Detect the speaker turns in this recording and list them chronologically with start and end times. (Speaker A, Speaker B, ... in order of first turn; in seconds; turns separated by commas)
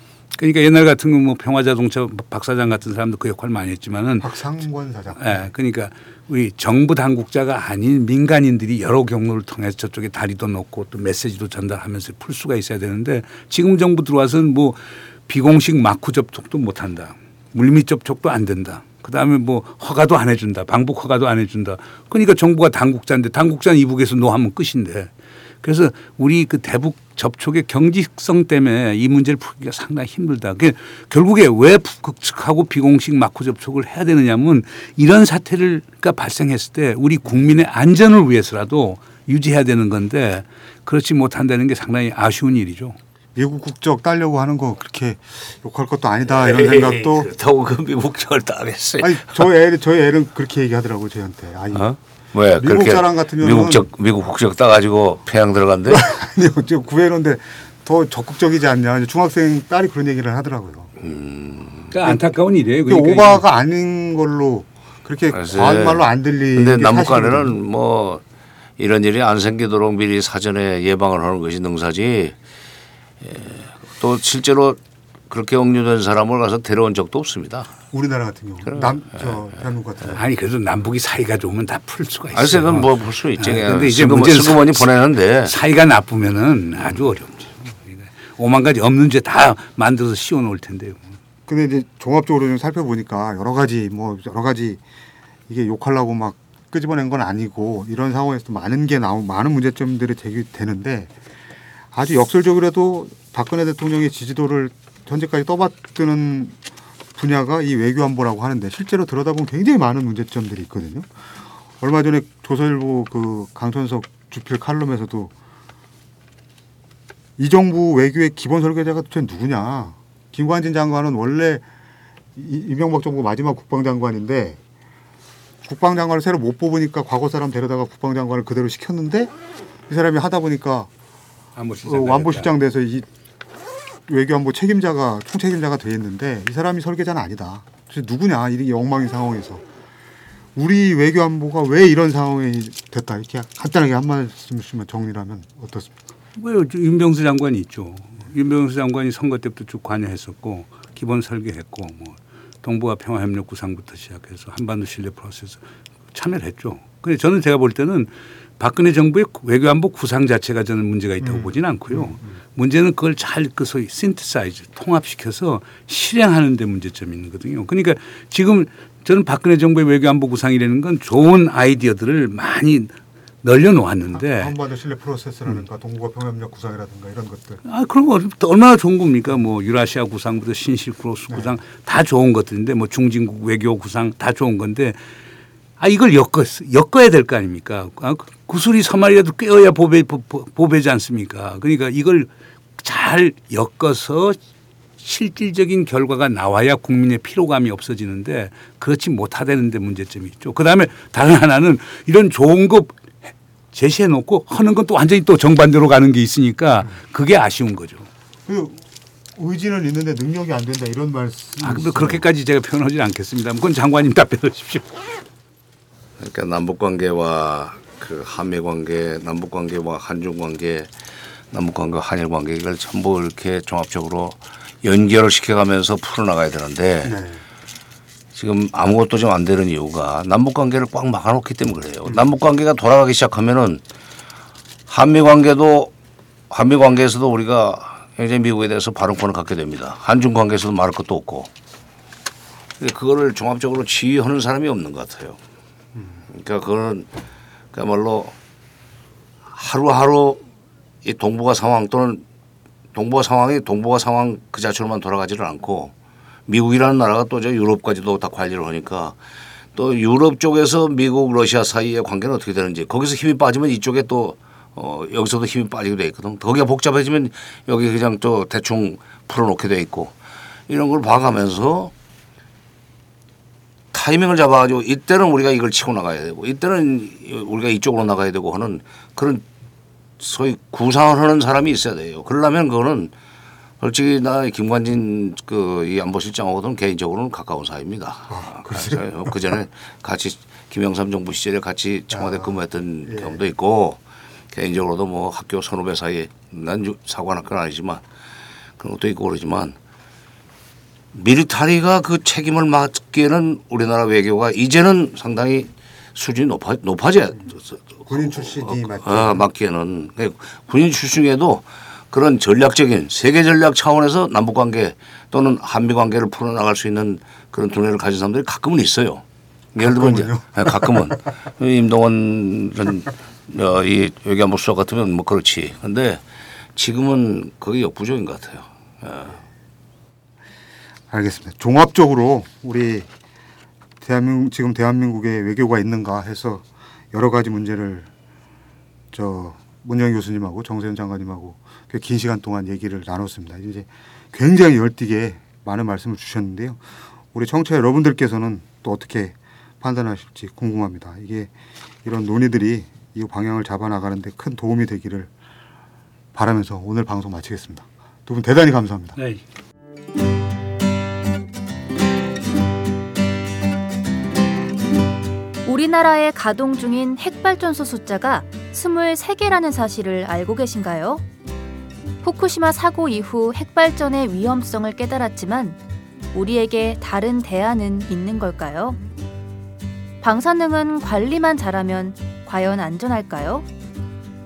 Speaker A: 0.3-4.3, Speaker B: 4.2-5.5, Speaker A: 5.2-25.1, Speaker A: 25.6-43.0, Speaker B: 43.3-47.3, Speaker C: 46.3-49.4, Speaker B: 49.0-51.9, Speaker C: 51.7-56.1, Speaker B: 52.6-53.9, Speaker B: 55.9-60.9, Speaker C: 61.0-61.9, Speaker A: 61.9-63.4, Speaker B: 62.9-67.5, Speaker C: 65.3-68.2, Speaker C: 68.8-72.3, Speaker C: 73.2-77.7, Speaker B: 77.9-80.2, Speaker A: 80.1-84.9, Speaker C: 82.3-85.5, Speaker A: 85.5-91.0, Speaker B: 91.5-94.8, Speaker B: 95.5-101.1, Speaker B: 101.9-106.6, Speaker B: 107.1-111.1, Speaker B: 111.8-115.3, Speaker B: 117.4-121.6, Speaker B: 122.3-124.6, Speaker B: 125.6-129.3, Speaker B: 129.9-130.9, Speaker A: 131.6-132.5, Speaker B: 131.8-133.1, Speaker B: 134.1-139.6, Speaker B: 140.5-145.9, Speaker A: 146.3-174.5, Speaker B: 161.2-162.2, Speaker B: 174.1-177.6, Speaker A: 177.6-185.0, Speaker A: 185.8-194.4, Speaker A: 195.0-203.1, Speaker A: 203.7-208.1, Speaker B: 208.4-208.8, Speaker B: 209.3-212.2, Speaker A: 211.6-215.2, Speaker C: 216.2-220.9, Speaker C: 221.5-227.2, Speaker B: 227.1-227.4, Speaker C: 228.3-233.8, Speaker C: 234.9-235.9, Speaker C: 236.5-241.5, Speaker C: 242.8-245.4, Speaker C: 246.3-247.1, Speaker C: 247.7-248.3, Speaker C: 249.5-250.4, Speaker C: 251.0-252.2, Speaker C: 252.9-255.9, Speaker C: 256.5-259.1, Speaker C: 259.7-270.1, Speaker C: 270.7-271.9, Speaker C: 273.9-279.4, Speaker C: 280.2-283.1, Speaker C: 283.8-294.0, Speaker B: 288.3-289.1, Speaker B: 292.1-292.5, Speaker B: 293.1-293.4, Speaker C: 294.5-298.0, Speaker C: 298.8-299.7, Speaker C: 301.1-319.2, Speaker B: 308.1-309.4, Speaker C: 319.7-326.2, Speaker B: 319.8-321.1, Speaker C: 326.7-329.4, Speaker B: 331.1-333.1, Speaker B: 334.0-338.1, Speaker B: 339.1-351.5, Speaker B: 352.0-355.3, Speaker B: 356.3-359.1, Speaker A: 359.1-359.4, Speaker D: 365.6-371.2, Speaker D: 372.2-375.8, Speaker D: 376.3-379.0, Speaker D: 380.2-383.7